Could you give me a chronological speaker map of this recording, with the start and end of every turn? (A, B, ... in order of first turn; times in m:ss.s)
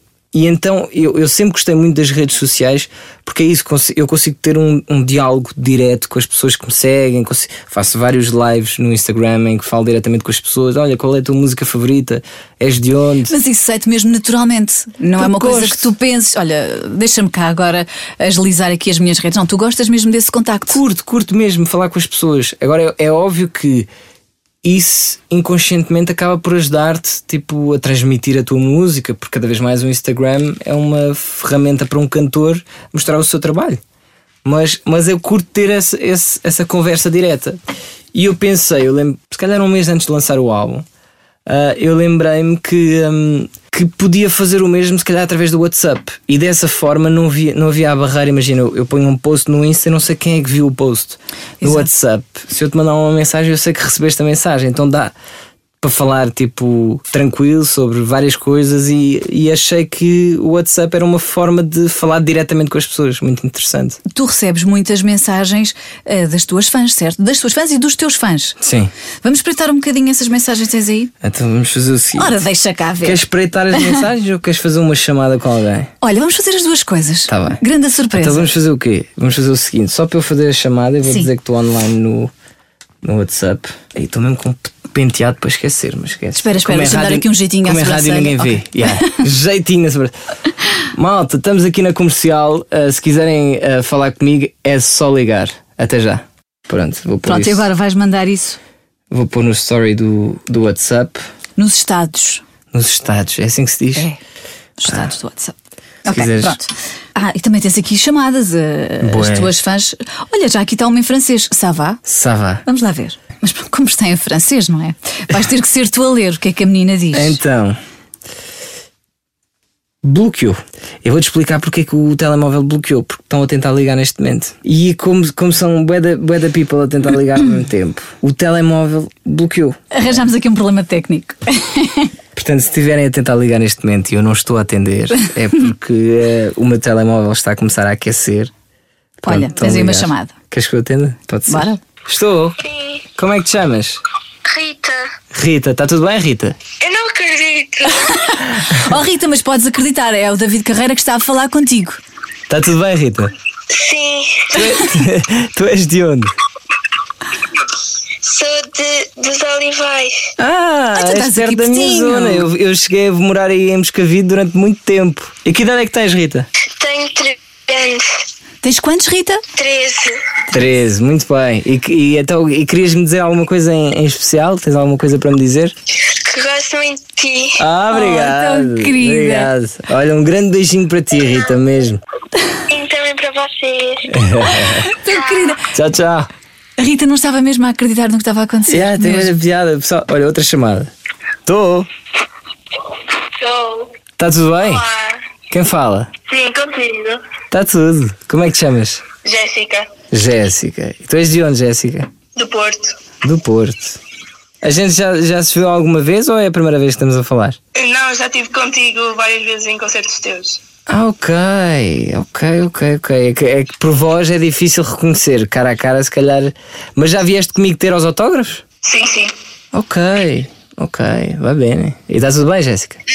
0:00.3-0:13.3 A
0:13.3-0:20.8 B
0:15.2-0:15.9 A
0:20.7-0:23.9 A
0:24.6-0:33.8 A
0:34.4-0:37.6 A
0:38.1-0:40.8 A
0:41.5-0:55.1 A
0:51.6-0:51.9 B
0:55.8-1:04.0 A
1:04.1-1:08.6 B
1:08.6-1:08.9 A
1:09.2-1:11.1 B
1:11.2-1:12.4 A
1:12.2-1:13.2 B
1:13.0-1:15.9 A
1:13.7-1:14.0 B
1:16.0-1:18.5 B
1:17.3-1:17.6 A
1:18.1-1:22.3 A
1:23.0-1:30.1 A
1:26.4-1:29.2 B
1:30.9-1:37.7 A
1:37.2-1:38.6 B
1:39.1-1:41.2 A
1:41.6-1:42.4 B
1:42.7-1:44.1 A
1:44.8-1:45.6 B
1:44.9-1:45.1 A
1:46.0-1:46.6 A
1:46.1-1:52.0 B
1:49.0-1:49.6 A
1:52.1-1:52.6 A
1:52.6-1:57.4 B
1:57.1-1:57.8 A
2:00.0-2:09.8 A
2:09.9-2:12.1 B
2:12.4-2:18.5 A
2:19.2-2:22.6 A
2:19.3-2:20.3 B
2:21.5-2:21.8 B
2:22.6-2:23.0 C
2:23.2-2:24.0 A
2:24.4-2:25.1 C
2:25.3-2:26.6 A
2:26.8-2:28.3 C
2:28.0-2:32.0 B
2:32.5-2:33.3 A
2:33.7-2:34.7 C
2:34.5-2:36.3 A
2:38.2-2:40.2 C
2:40.4-2:46.5 A
2:41.0-2:42.5 B
2:46.7-2:48.1 C
2:48.6-2:49.4 B
2:49.6-2:50.2 C
2:50.5-2:55.7 A
2:56.0-2:57.6 C
2:57.6-3:02.0 A
2:57.9-2:59.5 B
3:02.7-3:04.1 C
3:04.1-3:04.9 A
3:04.6-3:05.6 B
3:05.7-3:06.3 A
3:06.8-3:09.3 B
3:08.7-3:10.9 A
3:11.4-3:11.9 A
3:13.4-3:13.9 C
3:14.2-3:14.9 A
3:14.6-3:15.2 C
3:15.5-3:16.1 A
3:16.3-3:17.2 C
3:17.5-3:19.1 A
3:19.2-3:19.9 C
3:20.1-3:22.1 A
3:22.4-3:23.0 C
3:23.2-3:24.0 A
3:24.6-3:27.6 A
3:27.8-3:30.6 C
3:30.9-3:38.6 A
3:38.8-3:39.3 C
3:39.7-3:43.0 A